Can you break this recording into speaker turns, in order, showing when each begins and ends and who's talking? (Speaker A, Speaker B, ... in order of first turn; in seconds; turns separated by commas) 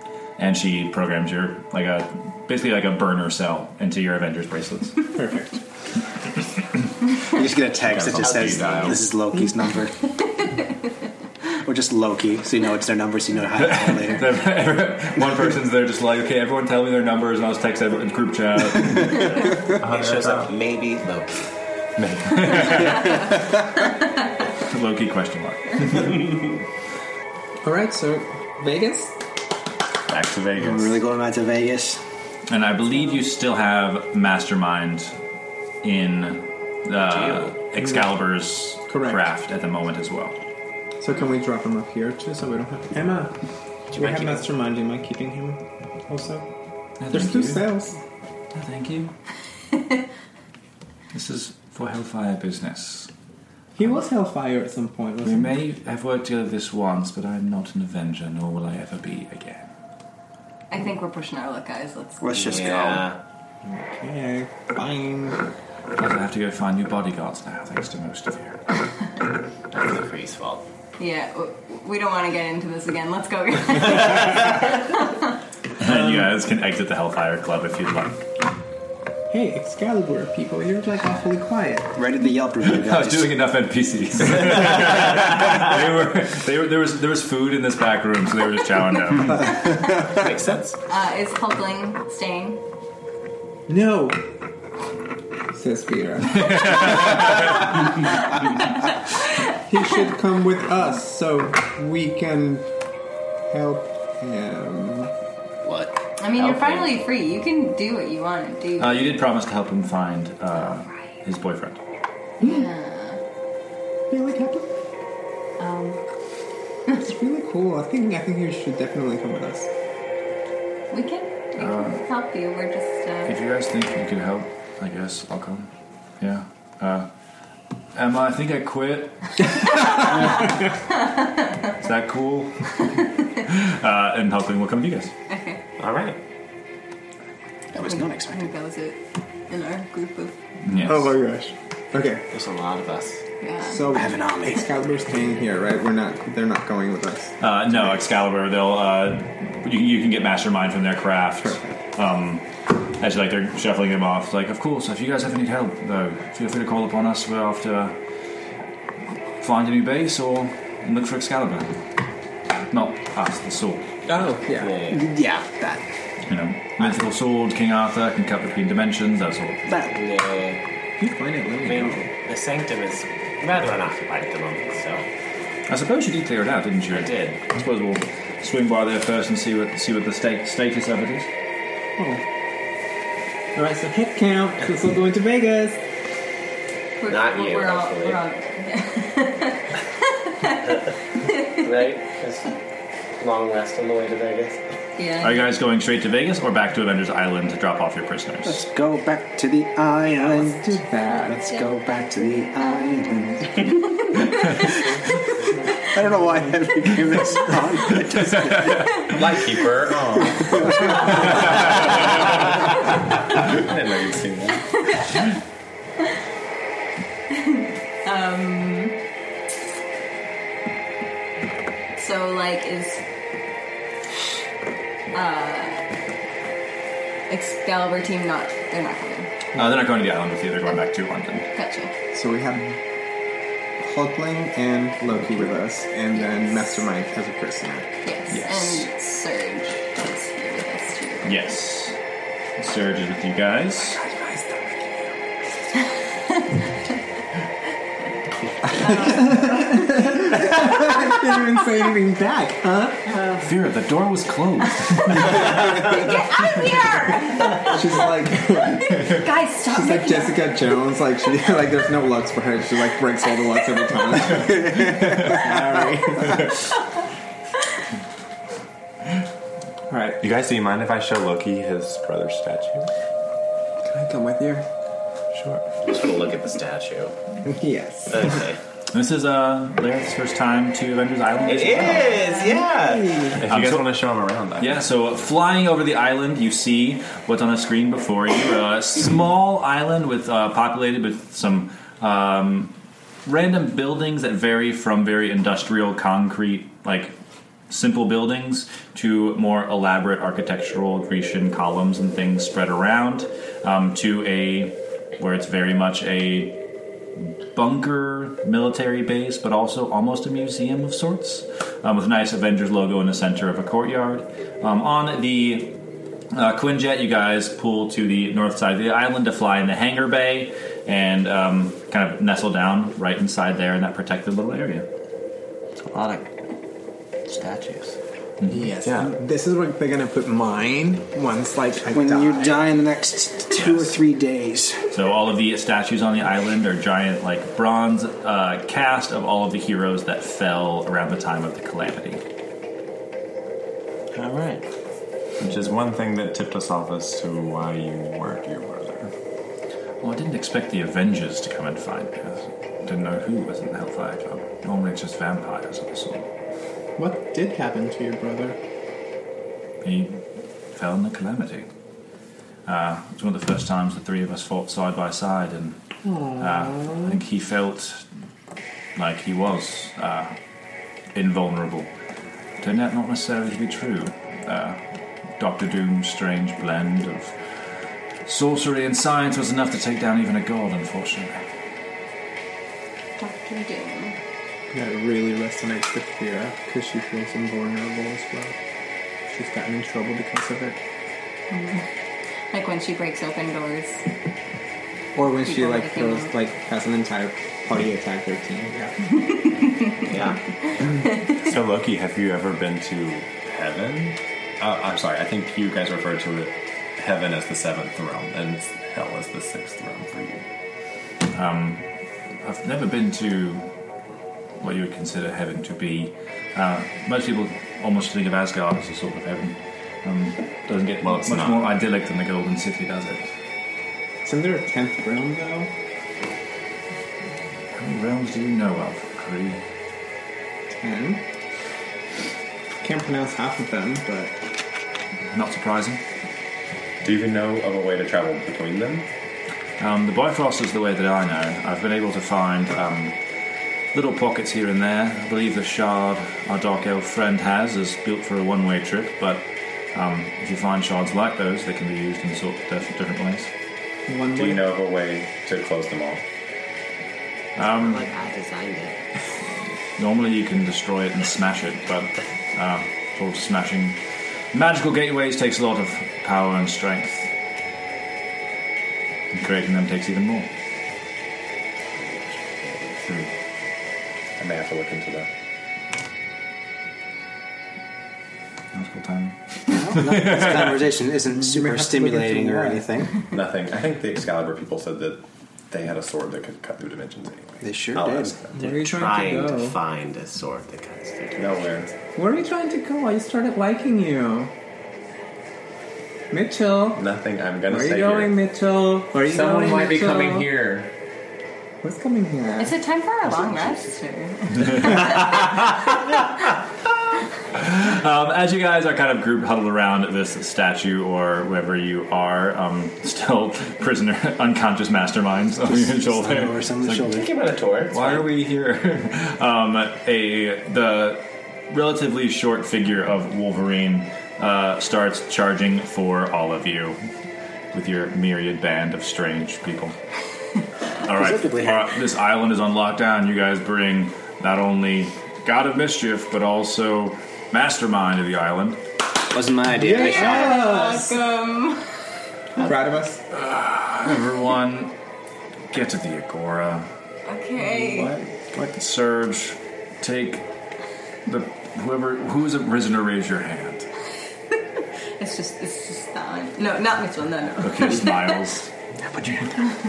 Speaker A: 0.4-5.1, Speaker B: 5.1-5.6, Speaker C: 7.3-10.0, Speaker D: 7.8-9.1, Speaker E: 8.2-9.1, Speaker C: 11.5-14.4, Speaker A: 13.6-19.4, Speaker E: 19.6-21.4, Speaker D: 19.7-20.5, Speaker D: 22.0-23.1, Speaker A: 22.4-23.1, Speaker A: 24.6-26.3, Speaker B: 27.6-29.2, Speaker D: 30.1-31.0, Speaker C: 30.5-32.0, Speaker A: 32.5-35.1, Speaker A: 35.8-40.4, Speaker E: 37.1-37.5, Speaker B: 38.9-39.3, Speaker B: 41.0-43.3, Speaker E: 43.9-44.4, Speaker B: 43.9-46.5, Speaker A: 47.0-47.7, Speaker B: 47.1-48.0, Speaker A: 48.5-49.1, Speaker A: 51.1-53.1, Speaker B: 53.8-55.6, Speaker A: 55.2-59.7, Speaker F: 60.7-62.4, Speaker C: 62.2-63.0, Speaker E: 62.3-63.2, Speaker B: 63.6-65.4, Speaker A: 66.0-68.6, Speaker E: 69.7-70.6, Speaker F: 71.0-75.3, Speaker A: 75.8-78.2, Speaker B: 79.3-82.0, Speaker C: 82.0-83.3, Speaker A: 82.7-89.5, Speaker E: 89.9-90.8, Speaker F: 90.9-92.6, Speaker B: 93.7-94.2, Speaker B: 95.5-97.2, Speaker A: 96.4-97.5, Speaker B: 99.6-102.7, Speaker B: 103.5-105.1, Speaker E: 105.6-107.1, Speaker F: 106.2-109.2, Speaker A: 108.8-111.8, Speaker F: 112.4-113.2, Speaker B: 112.4-112.7, Speaker B: 114.1-114.7, Speaker F: 115.6-116.0, Speaker B: 116.9-119.7, Speaker F: 120.9-123.3, Speaker A: 121.6-122.0, Speaker A: 123.3-127.1, Speaker A: 128.0-130.2, Speaker A: 131.8-132.8, Speaker A: 133.4-135.1, Speaker F: 135.3-135.6, Speaker E: 135.8-136.2, Speaker C: 137.7-138.5, Speaker F: 137.8-140.4, Speaker A: 140.6-141.2, Speaker B: 140.9-142.2, Speaker E: 142.3-143.2, Speaker F: 143.4-143.9, Speaker B: 143.6-147.4, Speaker C: 143.9-144.7, Speaker A: 147.4-158.0, Speaker B: 151.4-151.7, Speaker A: 159.4-161.8, Speaker A: 162.7-163.9, Speaker B: 164.1-164.8, Speaker E: 164.6-165.1, Speaker C: 164.9-165.8, Speaker A: 166.3-169.6, Speaker C: 169.7-169.9, Speaker E: 169.9-170.6, Speaker B: 171.0-172.1, Speaker E: 171.6-175.1, Speaker A: 175.7-181.3, Speaker E: 176.9-177.4, Speaker B: 182.0-182.2, Speaker B: 183.6-185.8, Speaker F: 187.0-189.7, Speaker E: 187.1-188.2, Speaker F: 191.3-191.5, Speaker E: 191.5-192.6, Speaker E: 193.2-194.6, Speaker F: 195.0-195.4, Speaker A: 195.2-198.6, Speaker C: 198.4-203.7, Speaker B: 200.4-201.4, Speaker F: 201.3-204.7, Speaker C: 205.8-209.0, Speaker D: 209.0-210.7, Speaker E: 210.3-211.0, Speaker D: 211.4-212.5, Speaker D: 213.3-214.7, Speaker F: 214.8-215.3, Speaker F: 217.3-218.9, Speaker F: 221.9-223.0, Speaker F: 225.1-225.8, Speaker F: 227.3-229.3, Speaker A: 229.6-231.5, Speaker F: 231.5-231.9, Speaker B: 232.1-232.8, Speaker B: 233.8-237.9, Speaker F: 238.0-241.4, Speaker A: 238.3-238.9, Speaker A: 241.2-242.0, Speaker A: 242.6-244.0, Speaker B: 244.0-245.2, Speaker B: 248.7-253.1, Speaker F: 248.8-250.1, Speaker A: 253.4-255.4, Speaker B: 255.1-256.2, Speaker F: 255.8-260.6, Speaker B: 257.5-266.5, Speaker B: 269.9-270.2, Speaker D: 270.2-272.9, Speaker B: 273.8-274.7, Speaker A: 275.4-275.6, Speaker E: 275.8-277.1, Speaker B: 277.4-278.4, Speaker E: 278.1-278.6, Speaker A: 278.9-282.2, Speaker F: 281.4-282.7, Speaker E: 281.4-283.3, Speaker B: 282.7-283.4, Speaker D: 283.3-284.9, Speaker A: 283.5-284.0, Speaker A: 284.6-292.7, Speaker A: 293.3-297.1, Speaker A: 297.7-306.6, Speaker A: 307.2-315.8, Speaker A: 316.3-324.9, Speaker E: 325.9-326.3, Speaker E: 327.3-327.9, Speaker B: 328.5-332.6, Speaker D: 328.8-329.1, Speaker C: 331.9-334.9, Speaker A: 333.6-333.9, Speaker A: 334.9-342.2, Speaker E: 344.1-344.6, Speaker D: 345.4-349.1, Speaker A: 350.0-356.3, Speaker B: 357.0-358.6, Speaker A: 359.8-360.2, Speaker A: 360.7-361.7, Speaker A: 362.7-365.8, Speaker B: 366.1-367.1, Speaker A: 366.4-368.1, Speaker A: 368.9-370.4, Speaker A: 371.1-371.9, Speaker A: 372.6-374.8, Speaker A: 375.4-377.5, Speaker A: 378.3-381.5, Speaker F: 383.2-384.2, Speaker B: 384.7-388.6, Speaker B: 389.2-390.8, Speaker F: 391.5-391.9, Speaker F: 392.5-394.0, Speaker B: 395.1-399.0, Speaker F: 395.4-396.3, Speaker F: 399.3-399.7, Speaker E: 400.1-400.4, Speaker D: 401.4-410.4, Speaker A: 411.3-411.9, Speaker A: 412.4-413.7, Speaker A: 414.6-423.3, Speaker D: 421.0-421.7, Speaker B: 424.2-425.7, Speaker A: 427.7-429.6, Speaker B: 430.7-431.2, Speaker B: 432.8-434.4, Speaker A: 435.3-436.0, Speaker D: 437.0-439.1, Speaker A: 439.8-443.2, Speaker A: 443.9-453.5, Speaker B: 454.1-454.6, Speaker D: 454.3-456.2, Speaker A: 457.6-458.1, Speaker E: 457.7-459.0, Speaker A: 460.0-464.0, Speaker A: 464.5-467.3, Speaker A: 469.3-470.5, Speaker E: 471.9-473.1, Speaker D: 474.4-475.3, Speaker A: 478.7-479.4, Speaker C: 479.7-483.3, Speaker A: 480.1-480.7, Speaker B: 481.3-482.9, Speaker D: 483.3-489.0, Speaker C: 487.6-488.4, Speaker B: 488.5-489.8, Speaker E: 488.8-491.9, Speaker D: 491.4-491.9, Speaker B: 492.2-494.5, Speaker B: 496.3-497.0, Speaker D: 496.9-498.4, Speaker B: 497.7-500.5, Speaker D: 499.2-500.9, Speaker B: 501.8-502.8, Speaker F: 502.6-505.7, Speaker A: 507.5-517.1, Speaker C: 515.7-517.3, Speaker E: 517.1-518.3, Speaker A: 517.9-527.0, Speaker A: 527.7-530.0, Speaker A: 531.0-538.8, Speaker C: 531.0-531.9, Speaker C: 539.3-540.8, Speaker B: 539.8-541.2, Speaker F: 540.0-541.9, Speaker B: 542.6-543.2, Speaker A: 543.3-545.0, Speaker A: 545.7-546.9, Speaker F: 547.3-548.2, Speaker B: 547.6-548.7, Speaker A: 548.5-550.5, Speaker A: 551.3-553.9, Speaker F: 554.7-558.5, Speaker A: 557.6-558.7, Speaker C: 559.0-559.6